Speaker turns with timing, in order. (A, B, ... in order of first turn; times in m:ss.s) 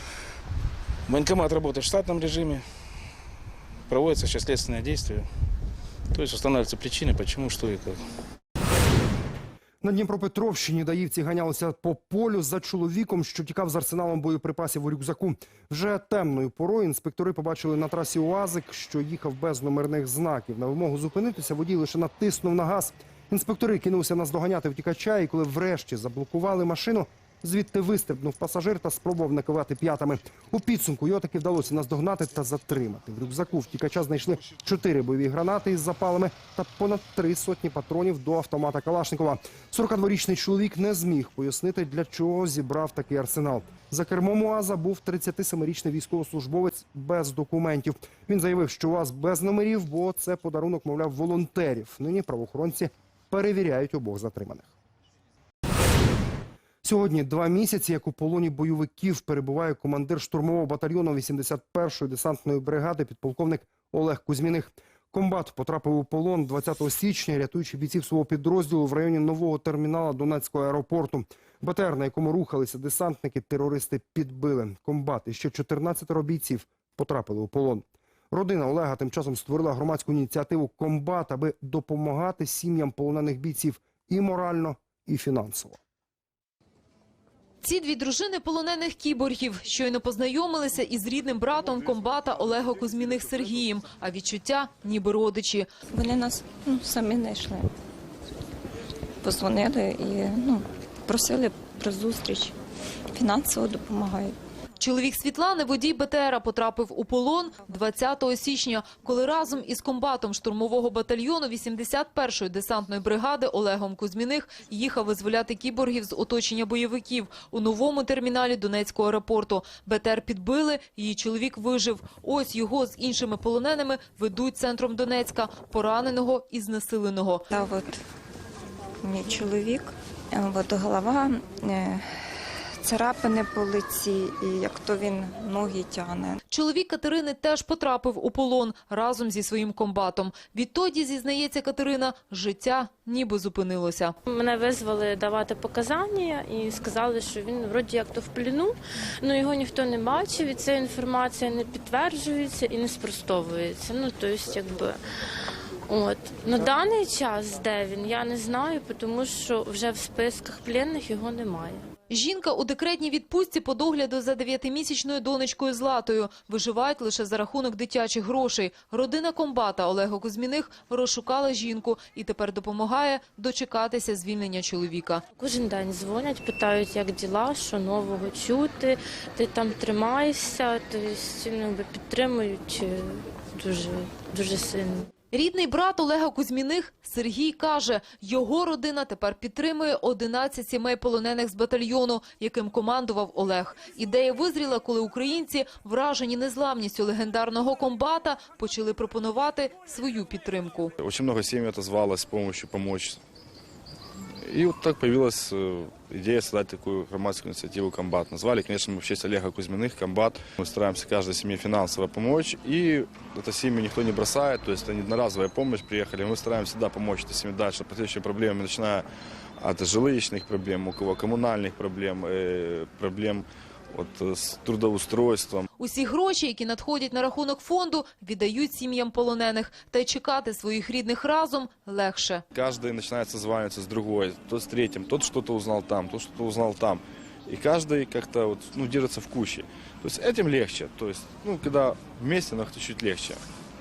0:01.1-0:02.6 A
0:03.9-0:05.3 A
0:06.1-0:08.0 A
0:09.8-0:54.7 B
0:56.8-1:25.8 B
1:27.6-1:35.7 C
1:35.9-1:37.7 D
1:39.2-1:42.5 D
1:43.1-1:44.4 D
1:44.8-2:07.4 C
2:07.5-2:08.0 D
2:09.0-2:16.4 D
2:16.5-2:24.2 C
2:24.2-2:35.0 E
2:35.9-2:41.8 E
2:42.1-2:55.2 C
2:55.4-3:05.1 E
3:05.3-3:20.9 C
3:21.0-3:23.2 F
3:24.4-3:39.0 F
3:39.6-3:45.7 F
3:45.8-3:52.4 C
3:52.5-4:03.4 F